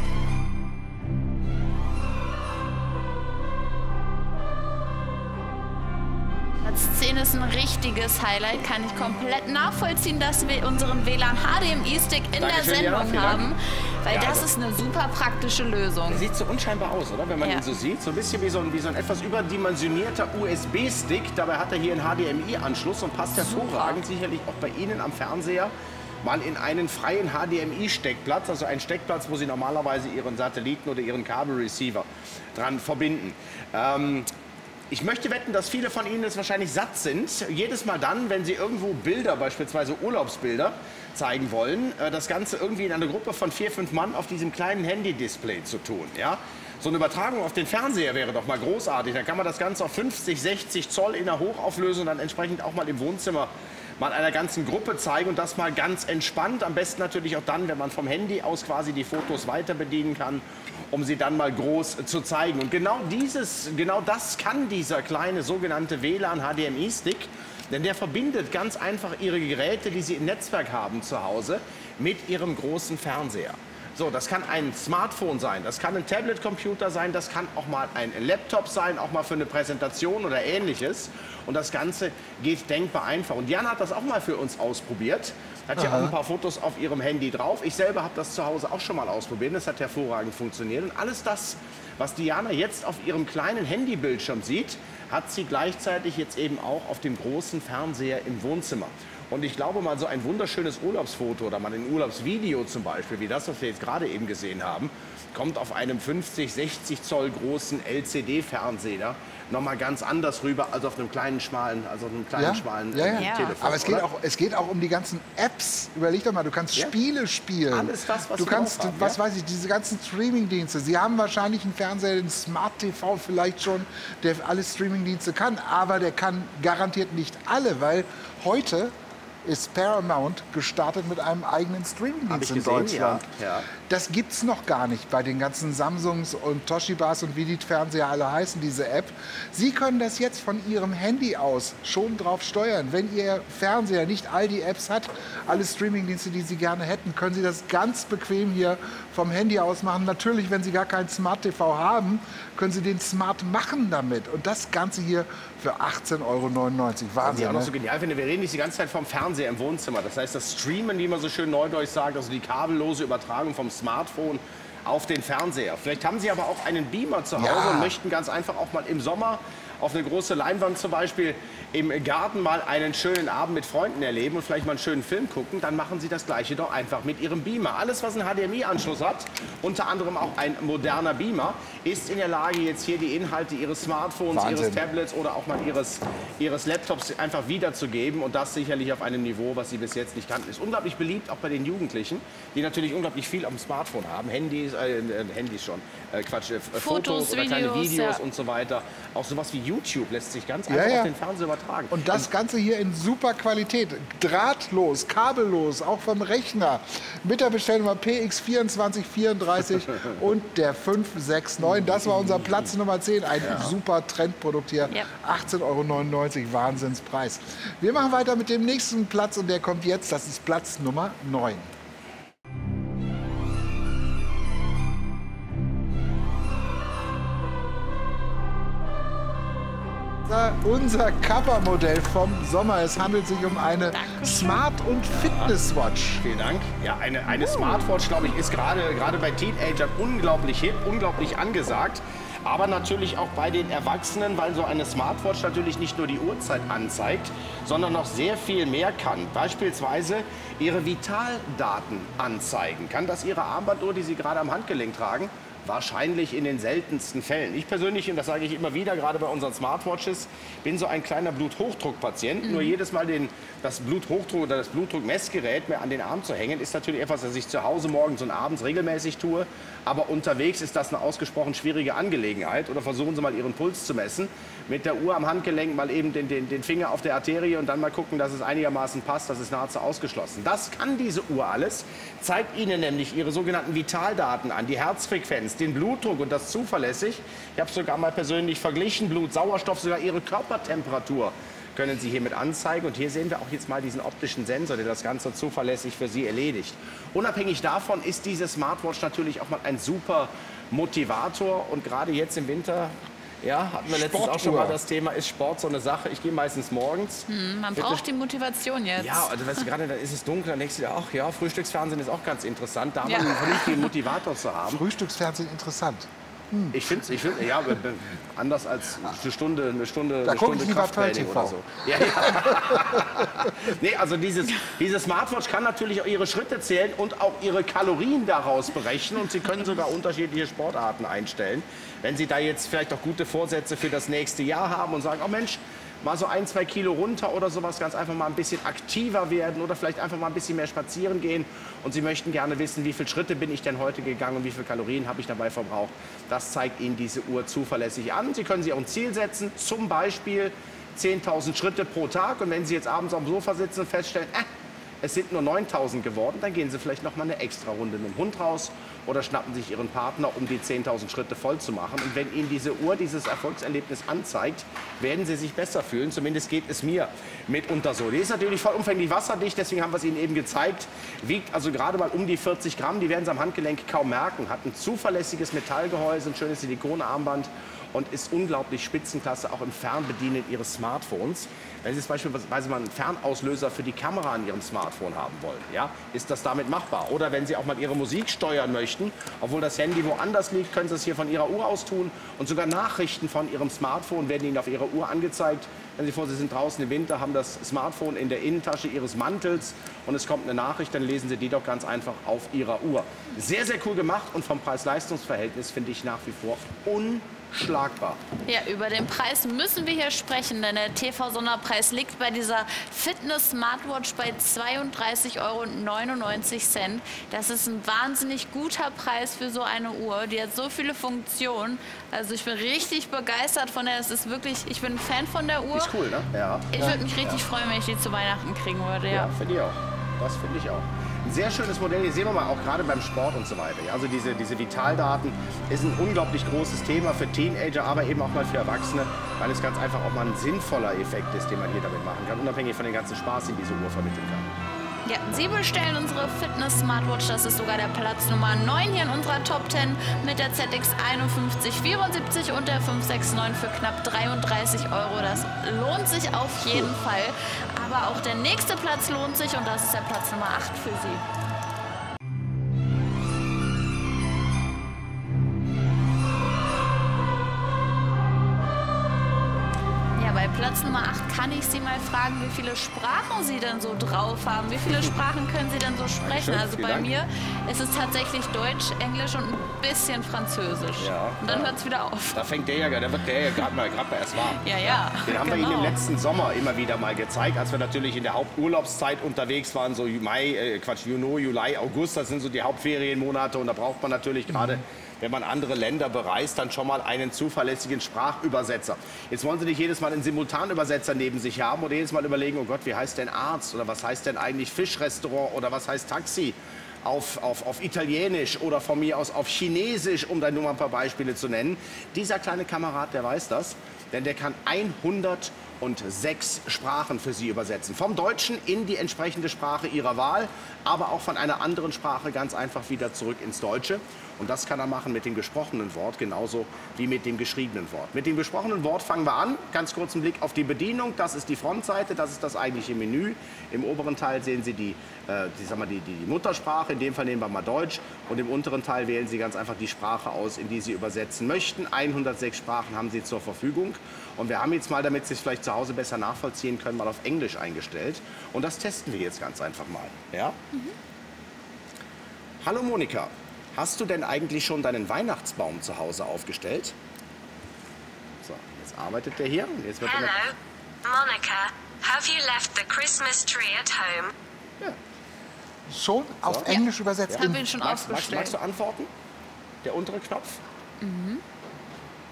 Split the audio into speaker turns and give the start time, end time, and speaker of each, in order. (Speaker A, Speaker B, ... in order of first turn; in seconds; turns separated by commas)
Speaker A: 6.7-16.3, Speaker B: 12.4-13.5, Speaker B: 14.1-14.5, Speaker B: 16.1-25.7, Speaker A: 23.4-24.0, Speaker B: 26.2-34.3, Speaker B: 34.9-114.0, Speaker C: 85.8-86.1, Speaker C: 112.4-133.2, Speaker A: 113.1-113.6, Speaker B: 117.7-119.2, Speaker B: 132.3-133.7, Speaker C: 133.8-157.7, Speaker B: 157.2-202.3, Speaker C: 167.4-168.0, Speaker C: 184.3-184.8, Speaker A: 196.7-198.2, Speaker C: 200.7-201.1, Speaker C: 201.9-221.7, Speaker B: 211.6-212.6, Speaker B: 213.4-213.7, Speaker C: 230.3-236.2, Speaker A: 233.9-234.6, Speaker B: 235.1-235.5, Speaker B: 236.2-308.0, Speaker A: 262.4-262.8, Speaker C: 303.9-304.8, Speaker A: 307.3-309.6, Speaker B: 309.0-314.9, Speaker A: 313.0-313.9, Speaker C: 314.7-317.0, Speaker B: 316.7-354.5, Speaker C: 320.2-323.0, Speaker B: 355.0-408.2, Speaker A: 408.5-425.9, Speaker B: 425.7-427.4, Speaker A: 426.7-429.3, Speaker B: 429.1-444.5, Speaker A: 445.1-461.2, Speaker A: 470.2-482.4, Speaker B: 476.2-477.1, Speaker B: 481.0-481.7, Speaker B: 482.3-550.6, Speaker A: 484.6-486.0, Speaker B: 552.6-556.9, Speaker B: 558.4-560.4, Speaker D: 560.0-560.5, Speaker D: 561.0-564.3, Speaker C: 565.9-567.7, Speaker B: 566.5-566.7, Speaker A: 566.7-568.6, Speaker B: 567.3-569.1, Speaker B: 569.8-570.6, Speaker A: 571.0-571.4